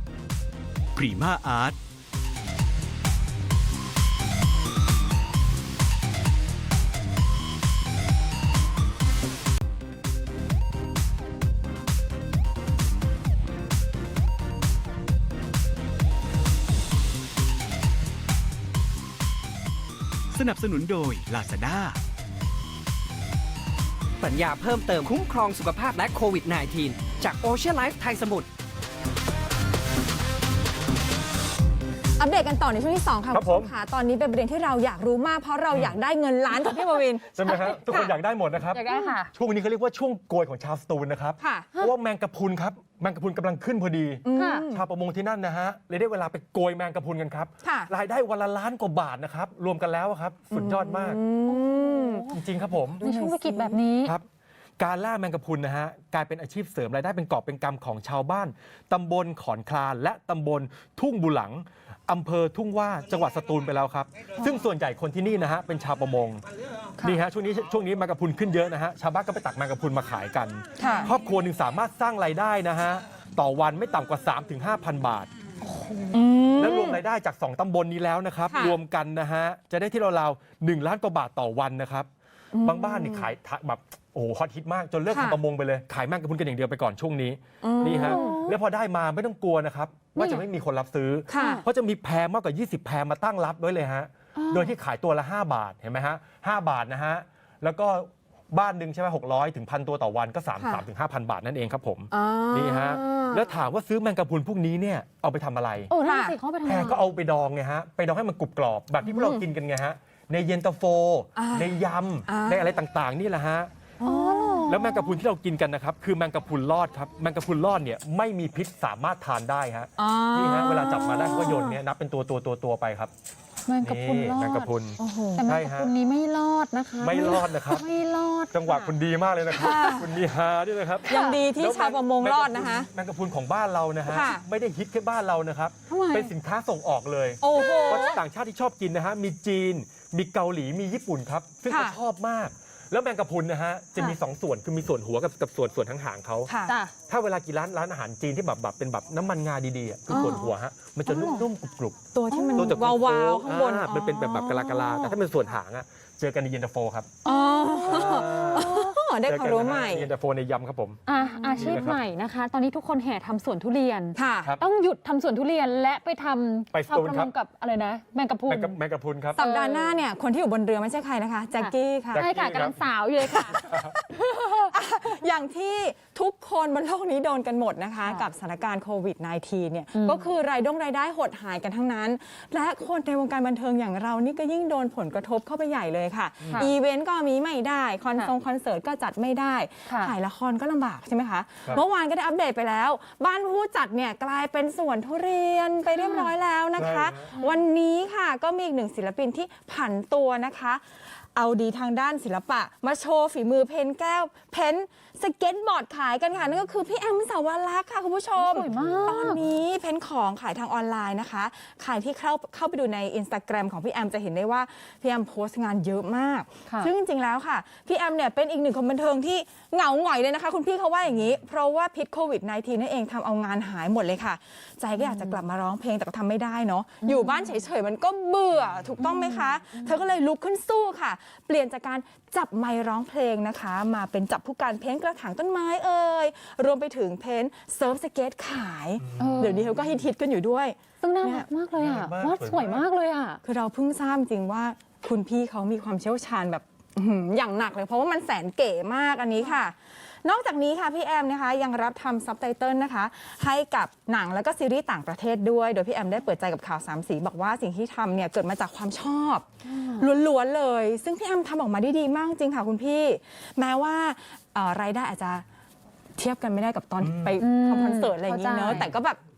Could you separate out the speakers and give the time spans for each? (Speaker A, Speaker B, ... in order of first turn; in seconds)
Speaker A: 1.0-1.8, 20.3-22.0
Speaker B: 24.2-28.5
Speaker C: 32.2-38.1, 38.8-39.1, 41.4-41.7, 44.2-44.9, 47.6-47.9, 50.5-52.3, 53.0-53.8, 70.8-71.1, 76.1-77.0, 78.5-78.8, 82.5-83.3, 85.1-85.4, 87.6-88.4, 91.3-91.7, 100.6-100.8, 102.1-103.5, 106.0-106.3, 109.0-109.5, 111.4-112.7, 114.0-114.8, 120.0-121.8, 125.0-125.5, 129.5-130.1, 131.0-132.9, 134.1-134.4, 137.4-138.2, 141.7-142.0, 146.5-146.8, 150.1-150.5, 151.1-151.4, 152.1-155.2, 157.2-160.1, 161.3-161.9, 164.2-164.6, 169.3-172.3, 173.4-174.0, 174.7-241.5, 243.4-259.5, 260.0-265.4, 266.2-269.2
Speaker D: 33.3-33.7, 37.4-51.2, 52.3-53.0, 54.8-66.4, 67.0-75.3, 76.6-82.1, 82.6-105.9, 106.6-113.7, 114.7-123.1, 123.8-125.9, 127.0-127.8, 128.5-146.5, 147.1-157.2, 157.8-161.0, 161.6-162.0, 166.7-167.3, 168.5-169.4, 172.1-172.8, 173.6-173.9, 196.8-197.3, 208.8-209.4, 239.0-240.1, 241.8-242.9, 267.0-267.4
Speaker E: 37.5-38.0, 38.7-39.3, 44.4-44.7, 51.5-52.4, 53.0-54.1, 75.6-76.2, 87.9-88.5, 90.2-90.5, 105.9-107.0, 114.0-115.1, 123.7-124.7, 125.3-128.9, 131.1-131.4, 135.9-136.3, 137.6-138.2, 146.7-146.9, 151.1-151.4, 152.3-152.8, 158.6-158.9, 161.1-168.8, 169.4-170.0, 171.6-174.7, 179.9-180.3, 189.9-190.1, 195.9-196.3, 197.3-197.6, 208.4-209.4, 216.7-216.9, 225.0-225.4, 227.0-227.6, 229.0-229.9, 239.2-239.7, 241.0-243.4, 259.6-260.1, 267.4-268.9